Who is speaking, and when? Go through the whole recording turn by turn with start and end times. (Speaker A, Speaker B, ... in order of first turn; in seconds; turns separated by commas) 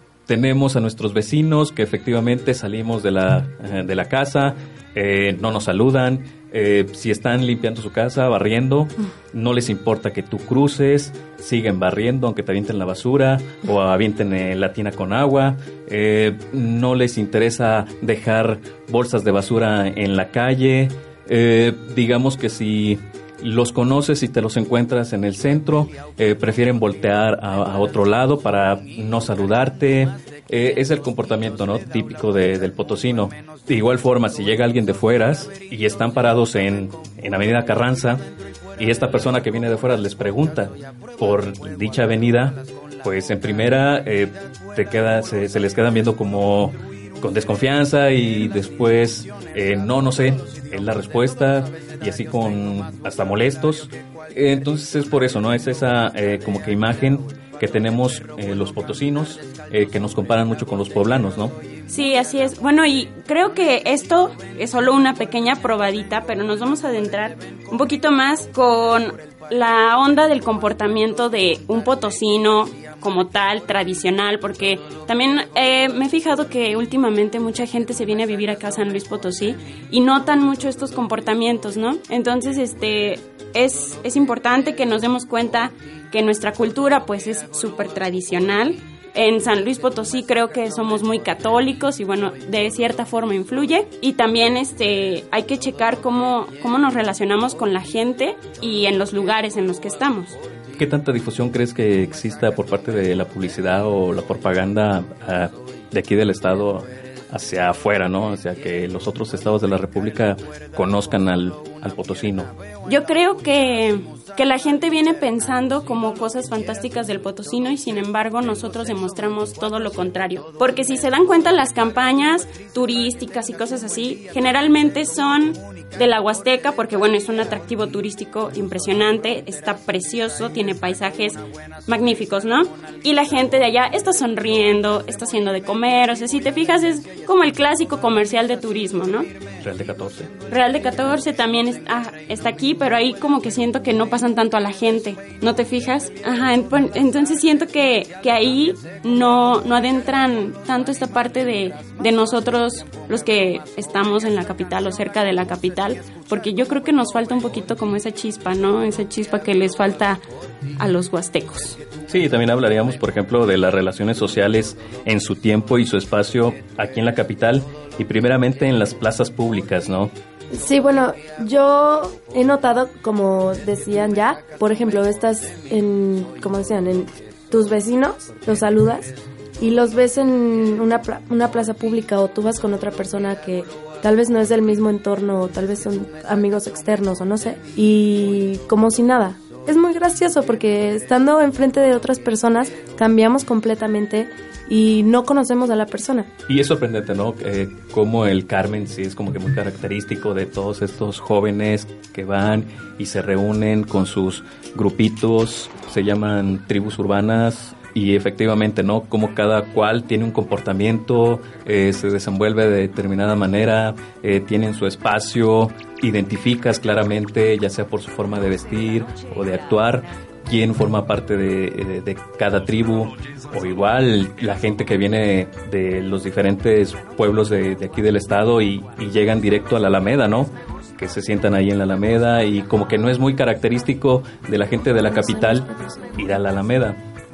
Speaker A: 0.3-38.2, Speaker A: 38.8-61.6, Speaker B: 61.9-100.4, Speaker A: 100.8-112.5, Speaker B: 112.9-139.3, Speaker A: 139.6-140.3, Speaker B: 140.5-160.2, Speaker B: 160.8-161.8, Speaker A: 162.1-170.1, Speaker C: 170.5-196.3, Speaker A: 196.5-237.0, Speaker C: 235.6-236.1